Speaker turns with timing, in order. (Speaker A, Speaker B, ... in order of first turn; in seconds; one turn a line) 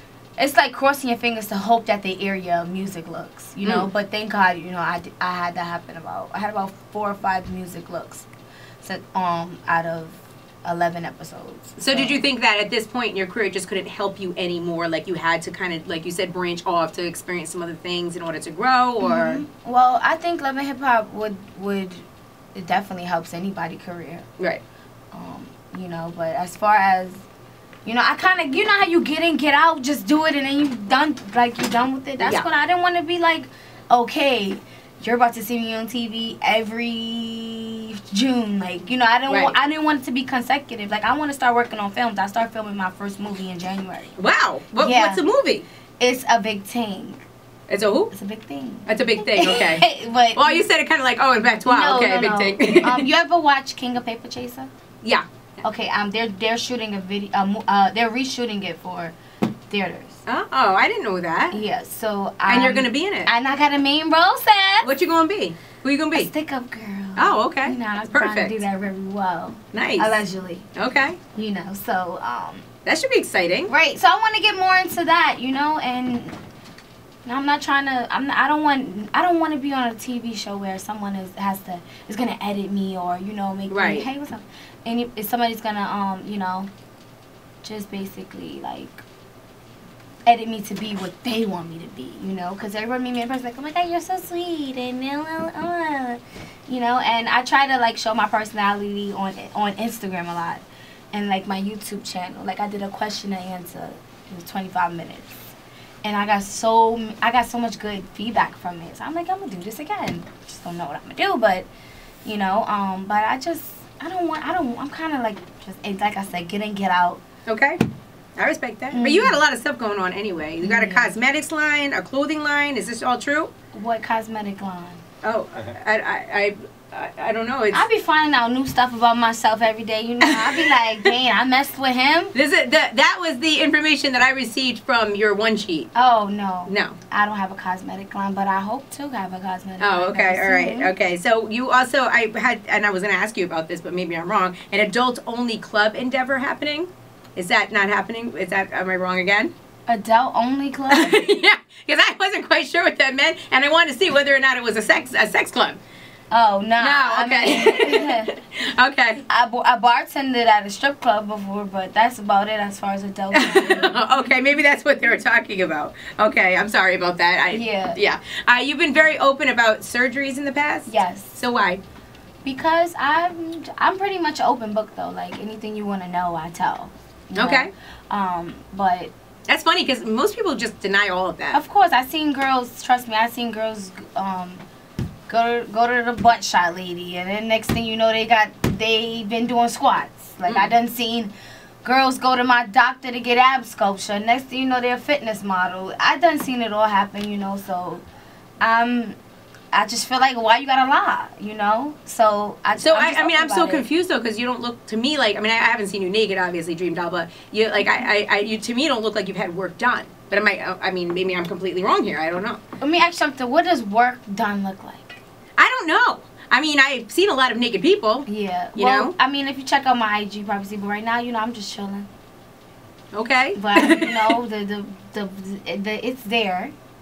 Speaker A: 0.4-8.2
Speaker B: 3.6-3.9
Speaker A: 8.8-12.2
Speaker B: 11.8-19.4
Speaker A: 19.0-24.2
Speaker A: 25.1-27.2
Speaker A: 27.8-44.2
Speaker B: 32.2-32.5
Speaker B: 39.3-39.5
Speaker B: 44.2-45.6
Speaker A: 44.8-45.2
Speaker A: 46.0-47.2
Speaker B: 47.7-48.1
Speaker A: 48.1-50.7
Speaker B: 48.9-53.1
Speaker A: 51.7-54.7
Speaker A: 55.6-59.1
Speaker A: 59.7-60.2
Speaker B: 60.2-61.6
Speaker A: 61.5-64.9
Speaker B: 62.5-63.3
Speaker B: 64.8-66.3
Speaker A: 66.1-70.7
Speaker B: 67.2-68.6
Speaker B: 69.7-70.2
Speaker B: 70.7-71.2
Speaker A: 71.3-72.7
Speaker B: 72.8-73.7
Speaker A: 73.7-76.4
Speaker A: 77.2-86.7
Speaker B: 83.7-84.1
Speaker A: 87.6-89.0
Speaker A: 90.2-105.5
Speaker A: 106.0-111.7
Speaker A: 112.2-117.2
Speaker B: 117.5-117.8
Speaker B: 118.4-123.5
Speaker A: 118.9-119.4
Speaker A: 120.6-121.2
Speaker A: 123.7-125.0
Speaker B: 125.2-127.8
Speaker A: 127.7-132.3
Speaker B: 130.2-130.7
Speaker B: 132.3-135.9
Speaker A: 135.9-140.9
Speaker B: 136.7-137.0
Speaker B: 139.8-149.5
Speaker A: 149.9-151.3
Speaker B: 150.9-155.8
Speaker A: 156.3-158.3
Speaker B: 156.8-159.2
Speaker A: 159.3-164.3
Speaker B: 163.3-171.8
Speaker A: 167.5-168.0
Speaker A: 170.9-171.4
Speaker A: 172.4-179.1
Speaker B: 177.3-177.7
Speaker B: 179.5-181.6
Speaker A: 181.5-184.6
Speaker A: 185.3-191.3
Speaker B: 190.5-190.7
Speaker A: 191.8-198.1
Speaker A: 198.6-199.2
Speaker A: 199.7-203.8
Speaker B: 202.8-212.6
Speaker A: 212.8-215.2
Speaker B: 215.6-219.1
Speaker A: 218.3-222.1
Speaker B: 223.1-224.3
Speaker A: 223.6-226.7